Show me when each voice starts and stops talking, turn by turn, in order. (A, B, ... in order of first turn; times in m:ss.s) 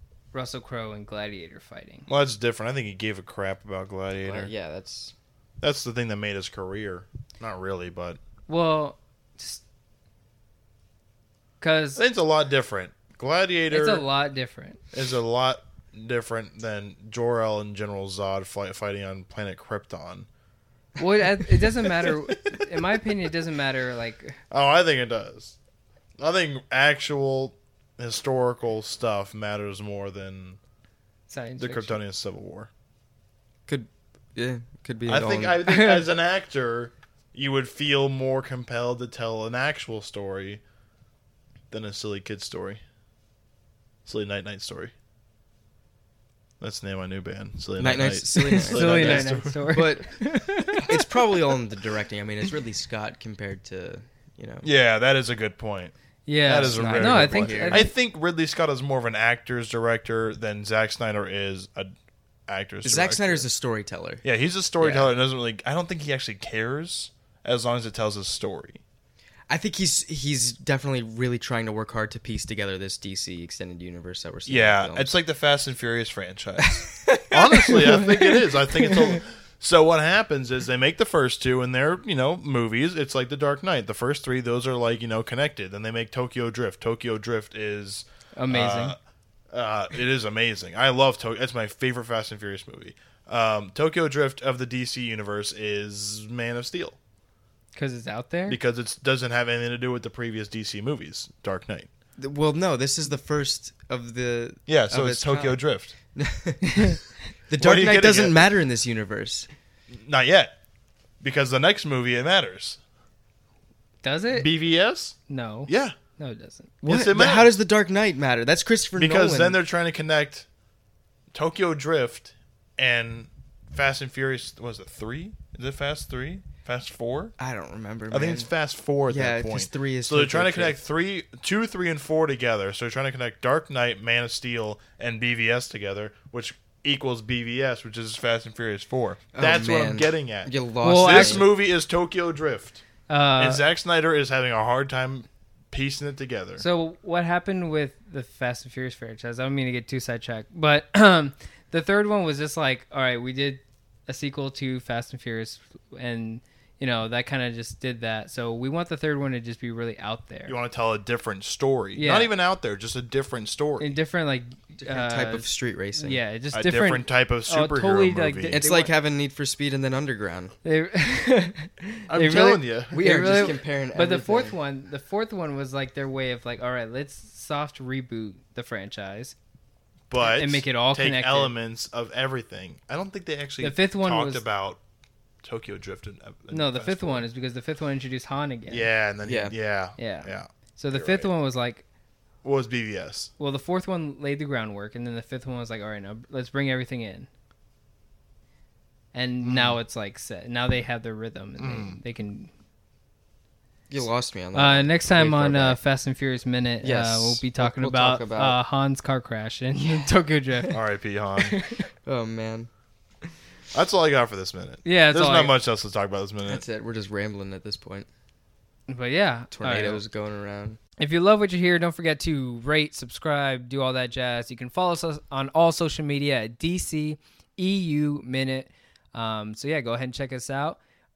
0:00.3-0:02.1 A
0:02.1-0:04.5 B
0:04.2-0:05.2 C
0:05.6-0:08.2 B
0:08.5-0:09.6 A
0:11.6-0:12.0 A
0:12.0-0:14.1 B
0:13.7-0:14.8 A
0:14.9-0:20.3 B
0:21.0-0:24.4 A
0:21.5-0:22.1 B
0:24.5-0:25.6 B
0:26.2-0:30.6 B
0:31.3-0:32.0 A
0:31.6-0:32.7 B
0:33.7-0:35.6 C
0:35.1-0:40.6 B
0:35.6-0:36.1 A
0:41.7-0:42.8 B
0:44.1-0:44.9 B
0:46.6-0:50.3 B
0:47.8-0:50.4 C
0:48.6-0:50.9 A
0:50.9-0:54.7 C
0:54.6-1:01.9 B
0:56.3-0:57.9 A
0:56.6-0:57.9 C
1:02.5-1:03.5 B
1:02.8-1:04.2 C
1:04.2-1:08.8 B
1:04.8-1:05.1 C
1:09.5-1:15.2 C
1:14.5-1:29.0 B
1:17.1-1:18.9 C
1:28.4-1:29.0 A
1:29.5-1:37.0 B
1:37.7-1:38.6 A
1:38.5-1:41.9 B
1:42.2-1:45.6 C
1:44.7-1:45.9 B
1:46.2-1:46.9 C
1:47.5-1:49.5 C
1:47.6-1:48.5 B
1:49.9-1:50.5 B
1:51.2-1:52.8 B
1:54.0-1:54.5 A
1:54.3-1:55.2 B
1:55.3-1:56.7 A
1:55.7-1:55.9 B
1:56.8-1:59.6 C
1:56.8-1:57.6 B
1:59.0-2:00.5 B
2:01.3-2:07.4 B
2:07.4-2:08.5 C
2:08.1-2:22.8 B
2:09.1-2:10.8 C
2:19.4-2:21.5 C
2:20.8-2:21.4 A
2:23.1-2:23.6 A
2:23.4-2:26.6 B
2:26.6-2:40.6 A
2:40.5-2:44.0 B
2:42.0-2:42.4 A
2:43.8-2:48.9 A
2:44.8-2:46.2 C
2:46.5-2:48.6 B
2:48.5-2:50.6 C
2:50.6-2:59.4 A
2:52.1-2:53.1 B
2:52.9-2:54.6 C
3:00.1-3:04.8 B
3:00.2-3:01.5 A
3:03.6-3:04.4 A
3:05.4-3:07.3 B
3:06.5-3:08.9 A
3:08.7-3:11.3 B
3:09.2-3:09.5 C
3:10.0-3:11.8 A
3:12.4-3:13.3 B
3:13.4-3:17.3 A
3:19.1-3:22.5 A
3:19.4-3:19.8 C
3:21.6-3:22.0 B
3:23.9-3:25.8 C
3:24.5-3:30.8 A
3:26.8-3:28.6 C
3:30.7-3:31.6 B
3:31.4-3:31.9 A
3:32.0-3:32.7 C
3:33.7-3:36.6 B
3:34.8-3:35.6 A
3:36.5-3:38.1 C
3:38.9-3:40.0 A
3:39.5-3:40.8 C
3:41.0-3:50.8 A